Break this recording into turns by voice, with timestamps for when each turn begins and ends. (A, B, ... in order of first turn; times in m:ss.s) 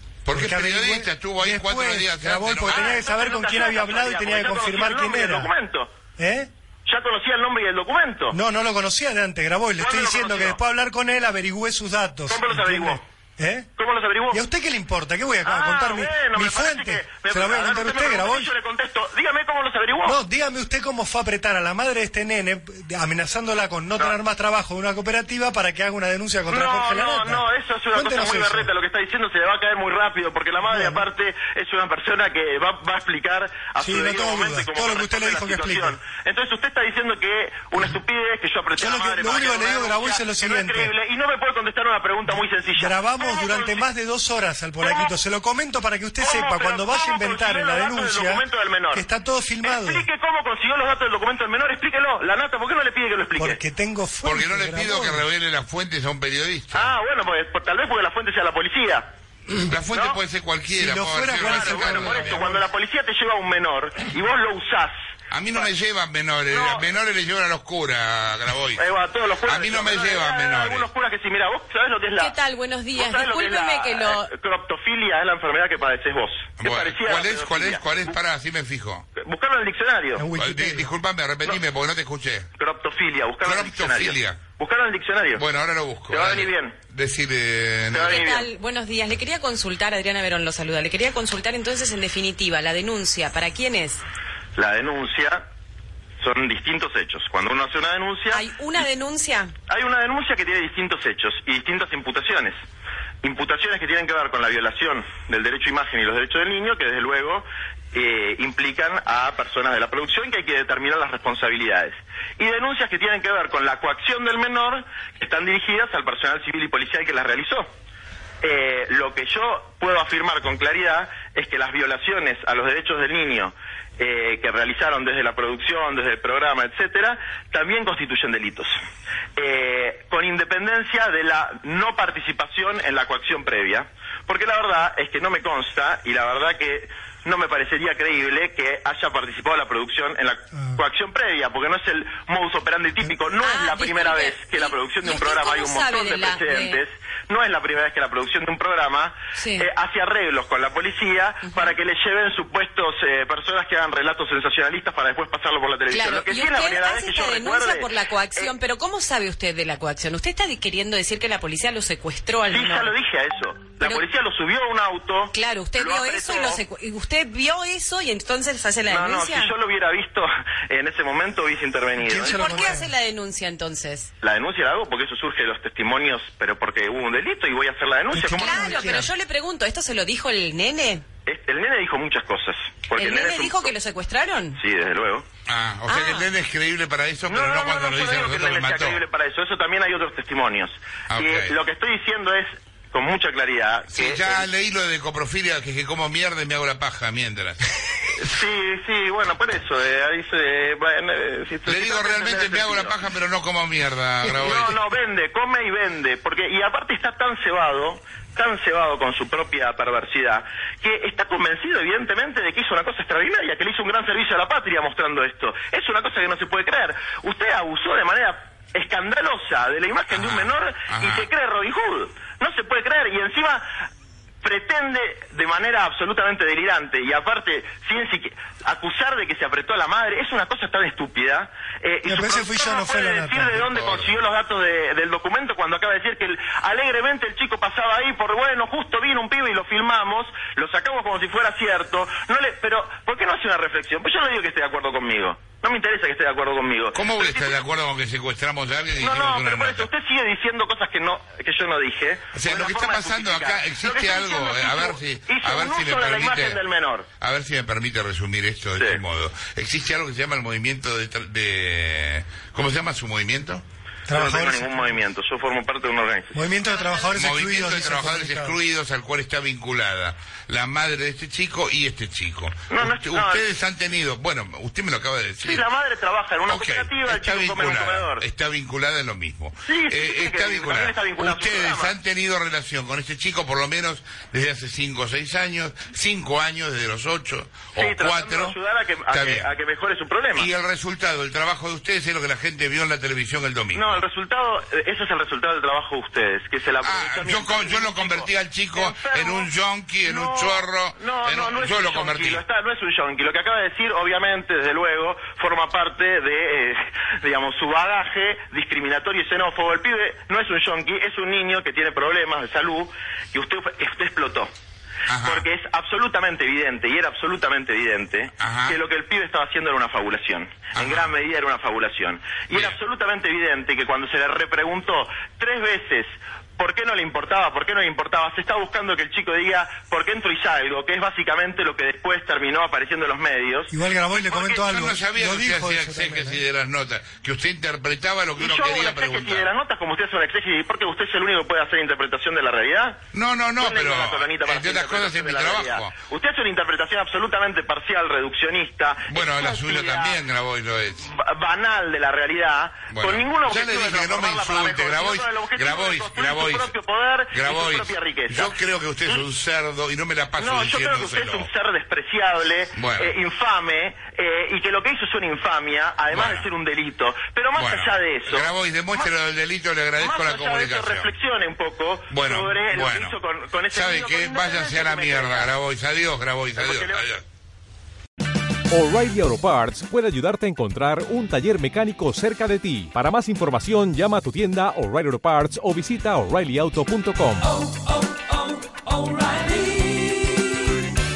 0:00.2-0:03.0 A
0:00.3-0:05.5 B
0:02.6-0:05.9 C
0:06.2-0:06.5 B
0:06.9-0:08.4 C
0:08.3-0:13.7 B
0:09.8-0:10.6 C
0:12.3-0:13.0 C
0:13.8-0:14.4 C
0:14.3-0:18.5 B
0:15.4-0:20.2 C
0:20.0-0:28.7 B
0:26.5-0:43.8 C
0:30.6-0:31.0 B
0:33.8-0:36.0 B
0:38.8-0:40.9 B
0:42.8-0:50.1 B
0:44.8-0:45.1 C
0:46.2-0:49.0 C
0:49.6-0:53.6 C
0:53.4-0:55.3 B
0:54.2-0:56.9 A
0:56.7-0:59.1 C
0:59.6-1:02.5 A
0:59.9-1:00.2 C
1:00.8-1:02.6 B
1:01.4-1:04.9 C
1:05.3-1:08.8 A
1:06.5-1:06.9 C
1:08.8-1:12.3 C
1:09.5-1:10.9 A
1:12.2-1:14.3 D
1:13.0-1:17.8 C
1:16.6-1:19.1 A
1:19.2-1:20.3 C
1:20.2-1:20.9 B
1:20.4-1:22.5 A
1:22.6-1:25.4 C
1:23.4-1:24.4 A
1:25.4-1:28.2 A
1:26.1-1:26.8 C
1:27.9-1:28.5 C
1:28.0-1:34.0 D
1:34.6-1:35.5 C
1:36.2-1:38.4 C
1:38.3-1:39.5 D
1:39.7-1:42.6 C
1:43.2-1:57.7 C
1:58.4-2:08.8 C
2:09.4-2:38.5 C
2:23.4-2:26.8 D
2:29.4-2:29.7 D
2:35.9-2:42.9 D
2:42.5-2:46.6 C
2:45.3-2:49.5 D
2:48.9-2:52.7 C
2:52.0-2:52.9 B
2:52.2-2:54.1 D
2:54.2-2:59.0 C
2:58.1-2:59.1 B
2:58.3-3:01.0 D
3:01.3-3:03.7 C
3:03.0-3:04.6 D
3:04.6-3:05.3 C
3:05.5-3:09.0 A
3:05.9-3:06.3 D
3:07.3-3:14.5 C
3:11.1-3:11.5 A
3:13.9-3:17.8 A
3:18.2-3:23.0 C
3:21.7-3:24.8 A
3:24.2-3:43.7 C
3:40.1-3:41.3 A
3:44.4-4:07.6 C
3:52.0-3:53.7 B
3:53.7-3:54.1 A
4:07.0-4:09.9 A
4:09.0-4:17.1 C
4:12.3-4:16.6 A
4:17.2-4:23.6 A
4:24.1-4:24.8 B
4:24.1-4:26.4 C
4:26.3-4:28.6 B
4:27.1-4:35.6 A
4:32.7-4:33.4 C
4:35.4-4:38.2 C
4:36.5-4:48.6 A
4:39.6-4:42.0 C
4:47.8-4:50.5 C
4:49.1-4:49.5 A
4:50.4-4:54.0 A
4:53.7-4:59.5 C
4:56.8-5:02.4 A
5:00.0-5:14.5 C
5:15.1-5:15.4 A
5:15.2-5:33.7 C
5:18.4-5:18.8 A
5:20.8-5:21.1 A
5:33.7-5:36.4 B
5:34.1-5:39.5 A
5:38.4-5:43.0 C
5:43.1-5:45.9 A
5:43.6-5:50.2 C
5:49.1-5:51.0 A
5:51.0-5:58.5 C
5:52.9-5:56.7 A
5:57.3-6:01.5 A
6:00.4-6:09.1 C
6:02.8-6:03.1 A
6:06.1-6:06.5 A
6:07.6-6:11.1 A
6:10.0-6:15.5 C
6:12.1-6:13.1 A
6:13.7-6:17.2 A
6:16.6-6:17.1 C
6:18.7-6:30.8 E